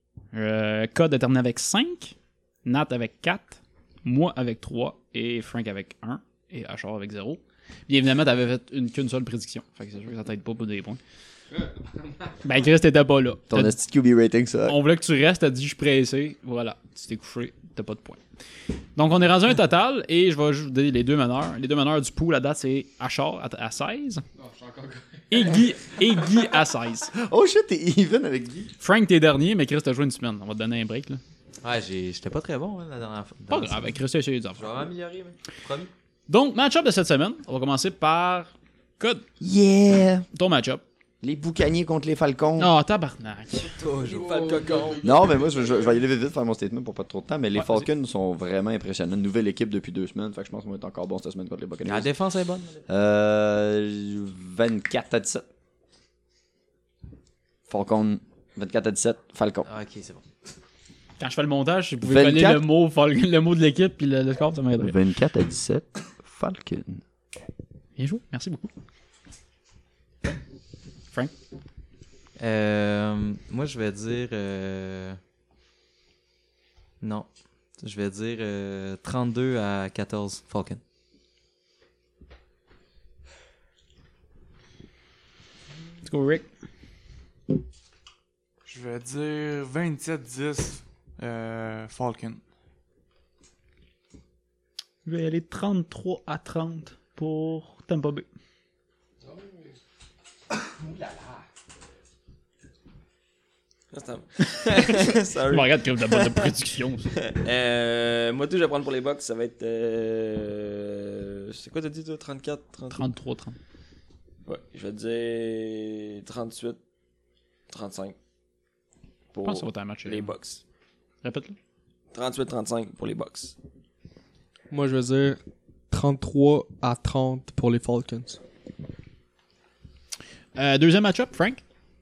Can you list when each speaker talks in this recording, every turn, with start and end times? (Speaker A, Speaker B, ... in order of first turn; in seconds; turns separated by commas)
Speaker A: 0.3-11.0, Speaker B: 11.5-12.3, Speaker A: 12.4-13.8, Speaker C: 13.5-14.8, Speaker A: 14.7-18.2, Speaker A: 19.0-24.2, Speaker B: 24.4-25.3, Speaker A: 25.3-27.1, Speaker C: 27.1-28.7, Speaker A: 28.8-31.2, Speaker D: 31.6-34.0, Speaker A: 33.5-34.7, Speaker D: 34.5-35.9, Speaker A: 36.3-39.3, Speaker C: 39.4-40.3, Speaker A: 40.3-40.8, Speaker C: 41.2-42.7, Speaker A: 42.6-43.7, Speaker D: 43.8-44.3, Speaker E: 44.0-45.0, Speaker B: 44.1-45.9, Speaker C: 45.0-52.1, Speaker A: 47.6-47.9, Speaker D: 51.9-52.8, Speaker C: 52.9-55.5, Speaker C: 57.7-59.7, Speaker D: 59.6-60.2, Speaker A: 61.2-65.0, Speaker C: 62.0-62.7, Speaker C: 64.8-67.0, Speaker A: 68.0-68.7, Speaker D: 72.4-75.2, Speaker D: 77.0-80.8, Speaker A: 86.0-86.5, Speaker F: 88.7-92.4, Speaker A: 95.0-98.3, Speaker B: 99.2-99.7, Speaker E: 103.9-106.5, Speaker A: 104.4-107.1, Speaker E: 107.2-113.0, Speaker A: 112.9-113.6, Speaker E: 114.5-116.8, Speaker E: 117.7-118.2, Speaker E: 119.3-120.6, Speaker A: 119.4-120.3, Speaker A: 121.2-121.6, Speaker E: 122.1-123.5, Speaker B: 124.7-128.4, Speaker A: 130.6-131.6